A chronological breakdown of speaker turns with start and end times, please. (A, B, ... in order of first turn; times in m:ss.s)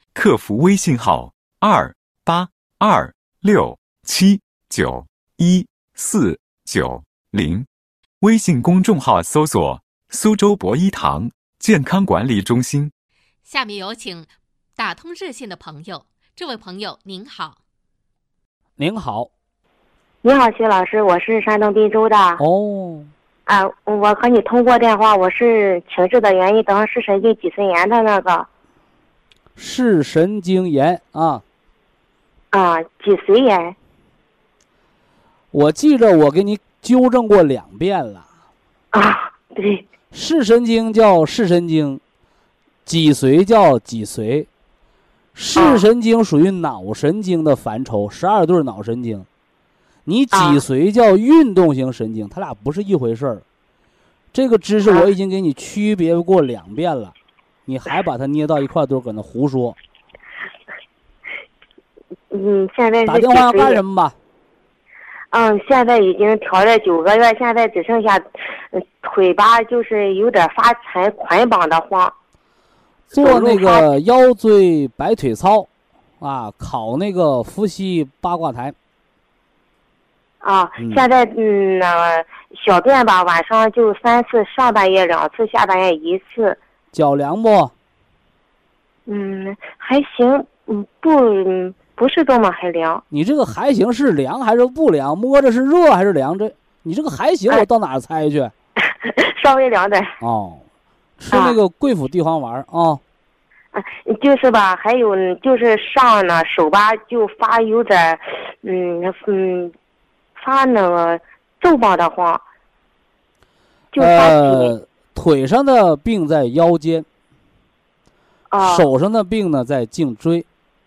0:00.2-0:07.7 A
0:08.2-0:12.9 A
0:13.4-0:17.6 B
0:18.8-0:19.3 C
0:20.2-0:22.4 D
0:22.4-0:23.1 C
0:23.5-0:28.5 D
0:29.6-0:31.4 C
0:32.5-0:33.8 D
0:35.5-0:38.3 C
0:38.9-0:39.9 D
0:40.1-0:42.0 C
0:42.9-0:44.5 C
0:45.4-0:49.3 C
0:45.6-0:45.8 D
0:50.1-0:53.4 C
0:50.3-0:50.6 D
0:54.3-0:57.2 C
0:57.7-0:59.8 C
1:02.3-1:03.8 D
1:03.1-1:04.2 C
1:05.3-1:12.1 D
1:13.1-1:15.7 C
1:13.1-1:13.9 D
1:16.2-1:18.8 C
1:20.4-1:26.6 D
1:26.9-1:27.7 C
1:29.1-1:33.0 D
1:33.1-1:38.5 C
1:38.9-1:40.1 D
1:40.2-1:40.6 C
1:41.2-1:43.0 C
1:43.7-1:49.7 D
1:50.4-1:52.4 D
1:53.9-1:54.8 D
1:54.0-1:57.1 C
1:58.5-1:58.9 D
1:58.6-2:00.5 C